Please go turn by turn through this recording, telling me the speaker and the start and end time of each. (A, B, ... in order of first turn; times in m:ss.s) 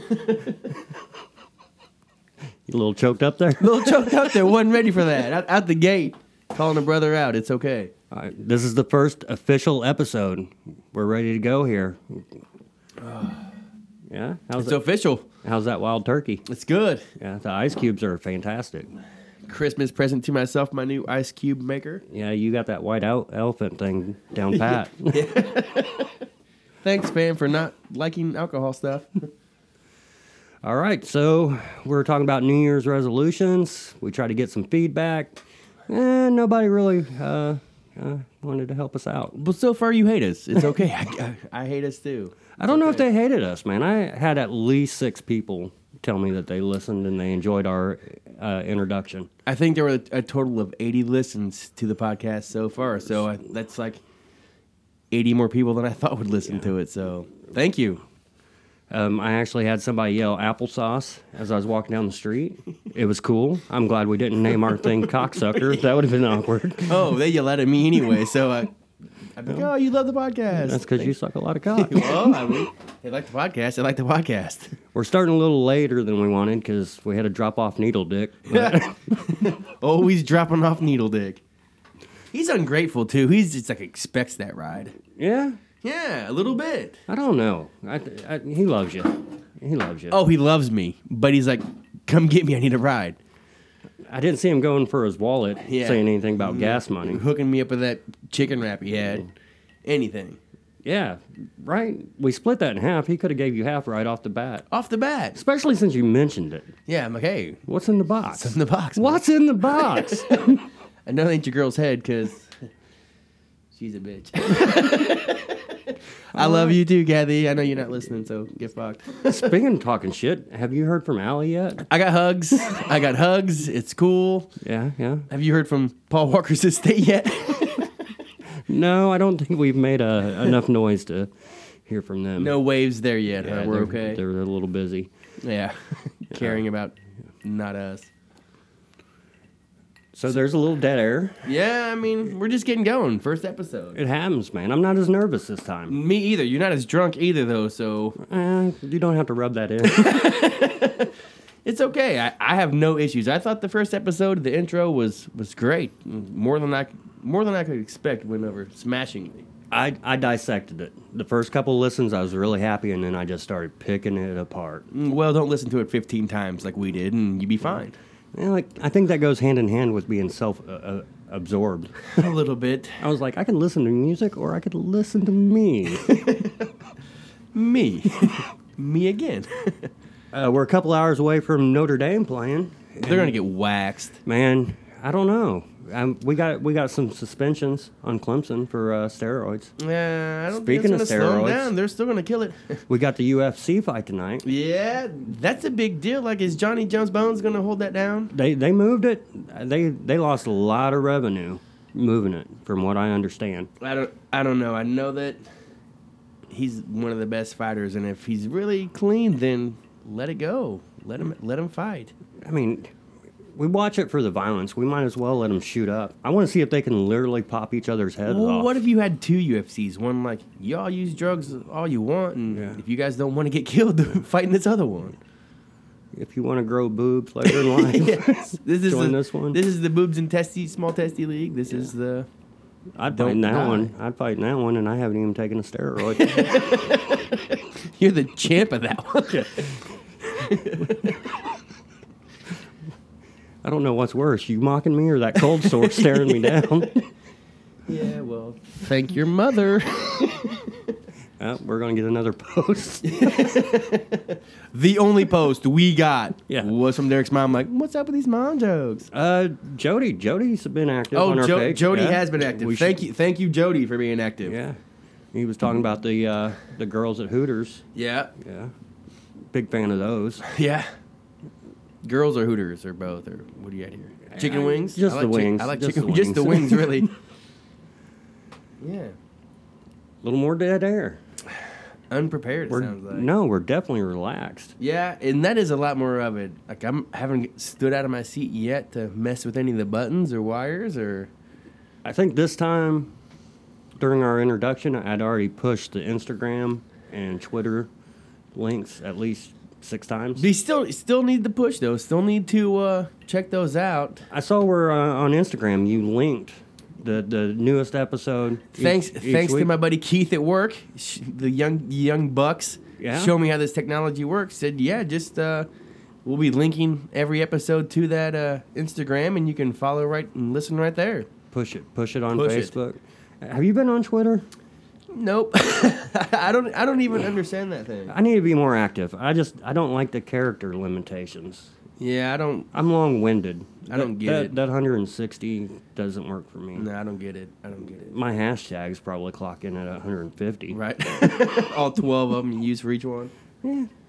0:02.7-0:04.3 A
0:03.6-0:07.9 B
0:08.1-0:12.4 A
0:13.0-0:13.5 B
0:14.1-0:14.8 A
0:14.6-0:15.3 B
0:15.4-0:16.4 A
0:16.5-0:17.0 B
0:17.2-0:18.9 A
0:19.4-0:22.0 B
0:22.1-0:25.5 A
0:24.5-0:26.2 B
0:26.8-0:29.1 B
0:30.6-0:39.4 A
0:39.3-0:43.0 B
0:42.6-0:49.3 A
0:49.4-0:54.0 B
0:55.1-0:58.0 B
0:58.9-1:07.1 A
1:06.9-1:08.7 B
1:09.3-1:11.1 B
1:10.5-1:12.5 A
1:11.7-1:14.7 B
1:14.9-1:19.5 A
1:18.5-1:21.4 B
1:22.3-1:24.9 B
1:25.2-1:25.6 A
1:25.8-1:27.0 B
1:27.1-1:30.2 A
1:30.1-1:33.2 B
1:34.1-1:37.2 A
1:35.6-1:39.3 B
1:39.8-1:40.4 B
1:40.8-1:44.6 A
1:44.7-1:45.4 B
1:45.3-1:46.7 A
1:46.9-1:47.6 B
1:47.6-1:50.7 A
1:48.3-1:49.2 B
1:51.0-1:52.6 B
1:53.7-1:59.5 B
1:56.3-1:56.8 A
1:59.3-2:01.9 A
2:01.9-2:04.5 B
2:04.6-2:05.3 A
2:05.3-2:07.9 B
2:08.7-2:11.3 A
2:11.8-2:12.6 A
2:12.4-2:14.2 B
2:13.4-2:15.1 A
2:15.4-2:18.1 B
2:16.3-2:16.6 A
2:20.1-2:21.5 A
2:21.4-2:24.0 B
2:23.9-2:26.0 A
2:25.9-2:28.2 B
2:28.2-2:30.4 A
2:29.8-2:31.1 B
2:31.6-2:39.4 B
2:39.7-2:44.9 A
2:44.9-2:48.0 B
2:48.3-2:52.1 A
2:52.1-2:53.0 B
2:53.0-2:56.5 A
2:55.9-2:56.6 B
2:57.5-2:59.9 B
3:00.3-3:03.3 A
3:03.0-3:04.2 B
3:04.2-3:09.7 A
3:09.8-3:12.8 B
3:10.5-3:11.7 A
3:12.9-3:14.5 A
3:14.4-3:18.3 B
3:18.3-3:23.7 A
3:23.8-3:25.4 B
3:26.5-3:32.1 B
3:32.4-3:32.9 A
3:33.6-3:38.8 A
3:38.2-3:45.2 B
3:42.5-3:42.8 A
3:46.1-3:49.6 A
3:47.4-3:52.3 B
3:53.0-3:56.8 A
3:53.1-3:53.9 B
3:56.1-4:01.4 B
4:03.6-4:07.0 A
4:05.5-4:06.9 B
4:07.9-4:11.0 B
4:11.4-4:13.8 A
4:13.0-4:19.1 B
4:19.1-4:23.0 A
4:21.1-4:24.6 B
4:24.4-4:24.8 A
4:25.3-4:27.8 A
4:27.9-4:28.3 B
4:28.4-4:28.7 A
4:29.5-4:30.4 A
4:30.4-4:30.9 B
4:32.0-4:37.1 B
4:34.3-4:37.1 A
4:38.8-4:39.1 B
4:40.2-4:41.2 A
4:42.1-4:43.3 B
4:42.7-4:44.7 A
4:44.8-4:51.3 B
4:52.0-4:53.1 A
4:54.0-4:57.9 A
4:58.5-5:00.5 A
5:00.4-5:04.3 B
5:04.3-5:09.7 A
5:08.8-5:15.7 B
5:13.0-5:13.3 A
5:16.2-5:21.3 B
5:21.5-5:24.5 A
5:22.3-5:22.7 B
5:25.1-5:28.1 B
5:28.1-5:31.7 A
5:32.0-5:32.7 B
5:32.7-5:36.9 A
5:33.9-5:34.5 B
5:36.8-5:38.1 B
5:37.9-5:40.8 A
5:40.7-5:43.3 B
5:43.6-5:43.9 A